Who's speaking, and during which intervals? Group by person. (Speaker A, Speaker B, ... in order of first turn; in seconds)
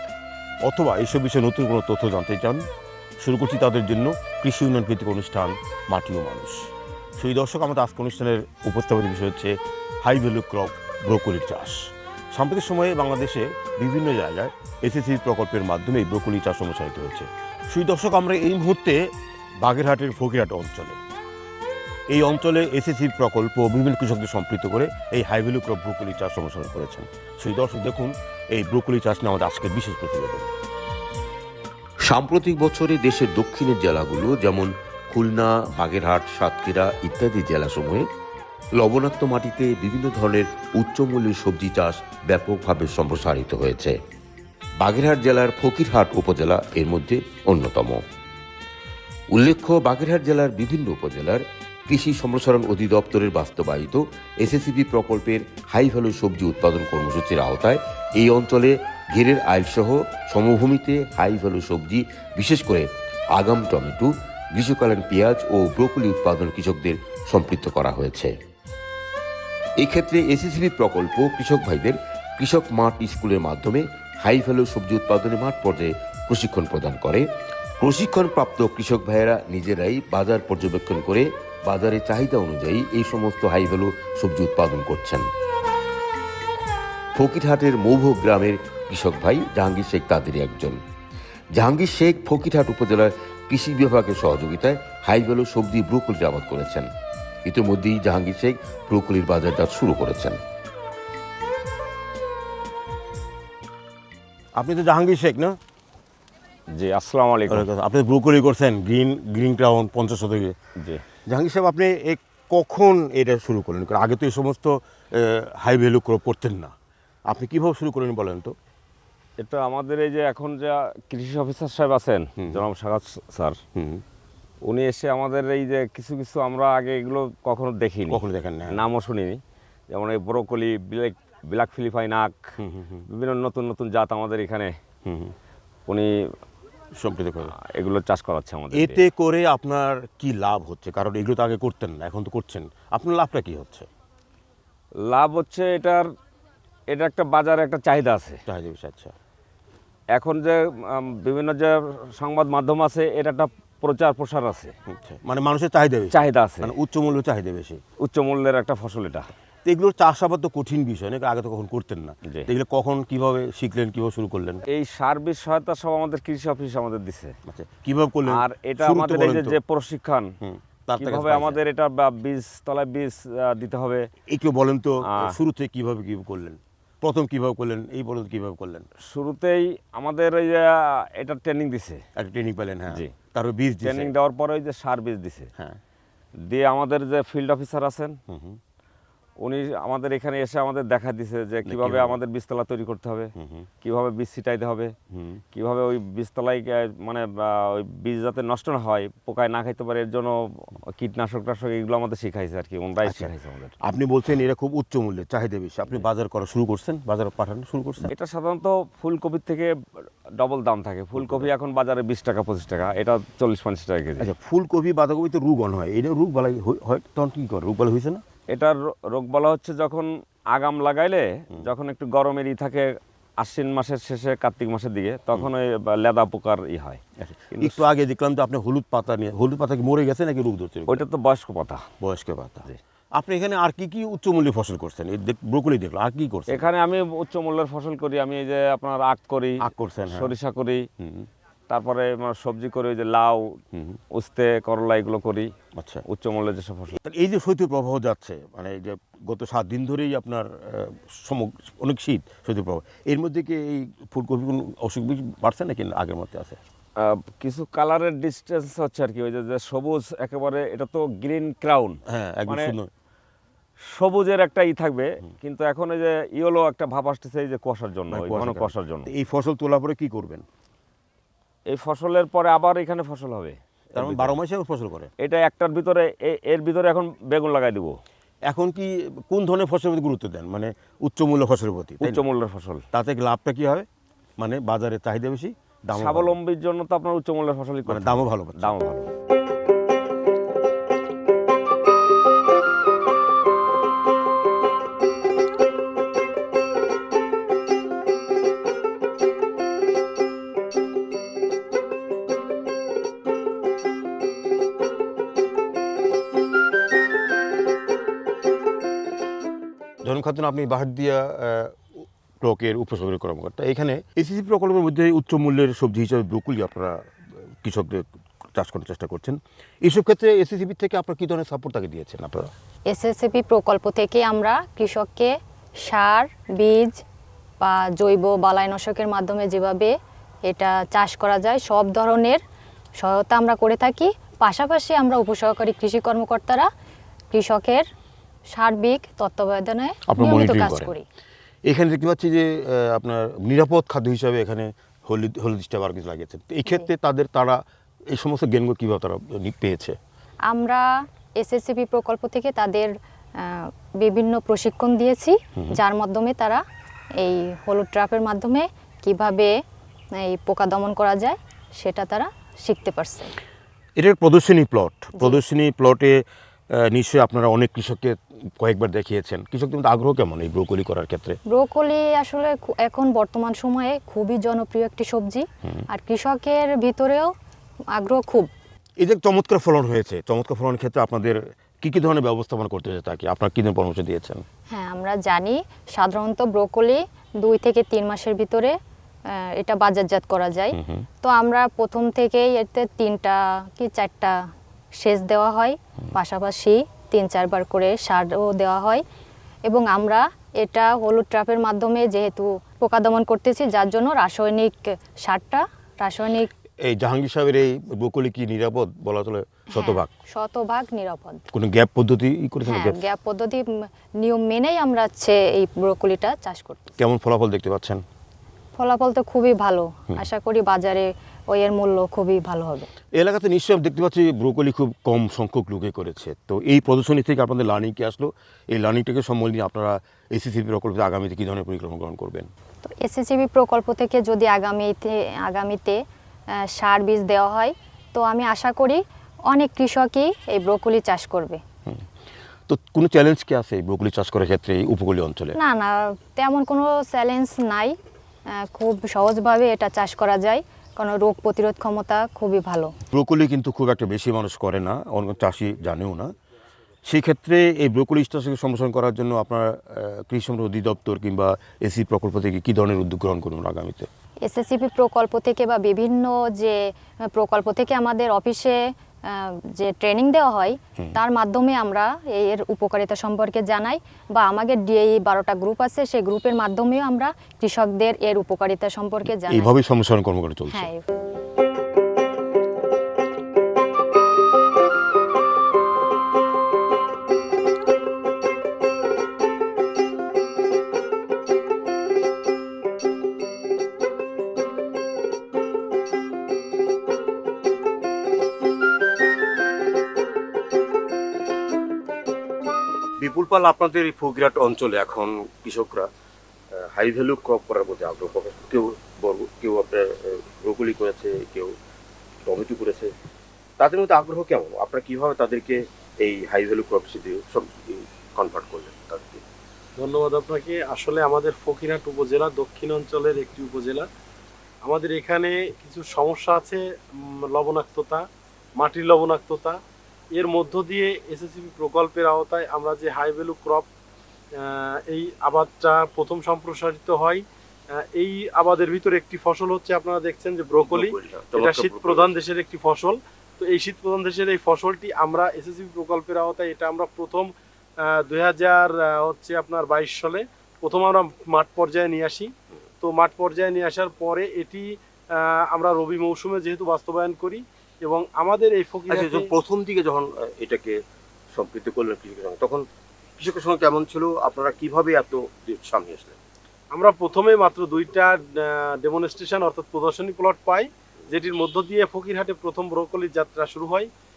Speaker A: 0.6-2.6, 3.2-19.1, 19.6-21.0, 22.1-30.5, 57.0-57.4, 58.3-58.7, 60.5-60.9, 70.0-70.6, 87.4-87.8, 104.5-105.6, 107.5-110.5, 111.3-116.7, 117.3-118.5, 122.4-122.7, 123.7-124.0, 128.1-128.8, 132.6-133.1, 135.0-135.3, 136.9-137.5, 138.7-143.9, 148.5-149.1, 154.9-157.8, 159.6-164.6, 167.5-169.6, 170.4-171.6, 174.3-178.9, 182.2-184.1, 188.3-188.6, 191.7-192.2, 193.3-193.7, 195.1-195.4, 203.0-208.1, 211.2-211.5, 214.2-218.2, 227.2-231.0, 232.0-236.7, 239.6-240.3, 241.0-241.3, 243.7-244.0, 245.7-246.0, 247.0-256.6, 262.1-262.9, 268.1-270.4, 273.9-275.1, 278.5-282.2, 282.9-283.9, 284.4-286.4, 287.9-288.7, 310.0-317.0, 317.6-322.5, 340.1-340.9, 341.7-347.6, 348.1-350.0, 364.0-371.4, 379.0-384.4, 390.7-391.1, 406.8-410.1, 411.5-413.0, 417.0-418.0, 423.1-432.5, 442.7-445.6, 453.1-456.3, 457.1-464.1, 479.3-480.9, 503.2-506.1, 506.7-511.7, 512.4-513.1, 513.8-519.4, 540.8-542.4, 559.1-561.0, 561.5-562.8, 563.4-566.4
Speaker B: 32.1-38.0, 38.8-43.9, 44.8-48.0, 49.3-58.6, 59.2-62.0, 62.5-62.8, 63.4-64.1, 64.6-68.3, 69.8-77.2, 77.8-81.2, 81.7-85.2, 87.2-90.8, 91.6-96.8, 97.5-100.3
Speaker C: 106.7-107.7, 119.4-123.6, 124.7-132.5, 133.1-134.7, 137.6-139.0, 145.1-146.1, 146.9-148.4, 150.1-154.7, 156.1-156.7, 158.0-159.3, 164.7-167.3, 168.3-170.3, 171.0-174.1, 175.1-175.3, 179.1-182.0, 183.8-185.5, 186.4-188.2, 189.4-193.3, 193.8-194.9, 195.5-203.7, 208.1-209.7, 210.4-214.3, 218.5-227.0, 227.5-227.8, 230.9-231.8, 236.5-240.8, 241.7-243.6, 244.1-245.5, 246.1-247.0, 257.0-262.7, 263.9-269.1, 271.7-274.4, 275.2-278.0, 282.0-282.8, 285.9-289.1
Speaker D: 322.9-325.3, 325.9-327.0, 327.6-329.9, 330.5-332.4, 333.0-336.7, 337.3-337.8, 338.5-341.0, 350.5-350.8, 351.4-352.9, 353.4-356.6, 357.2-359.5, 360.2-363.3, 371.5-377.3, 377.9-378.5, 384.7-388.7, 389.6-394.4, 395.0-399.0, 399.7-406.5, 409.7-411.4, 412.6-413.7, 414.2-416.9, 418.8-422.9, 432.8-436.0, 436.7-441.6, 445.6-447.9, 448.6-452.9, 464.4-466.8, 467.3-468.8, 469.3-479.7, 480.7-481.1
Speaker E: 520.0-524.1, 524.8-528.2, 528.8-529.8, 530.3-533.9, 534.6-537.4, 538.0-547.5, 548.0-552.5, 553.0-559.5, 566.9-574.1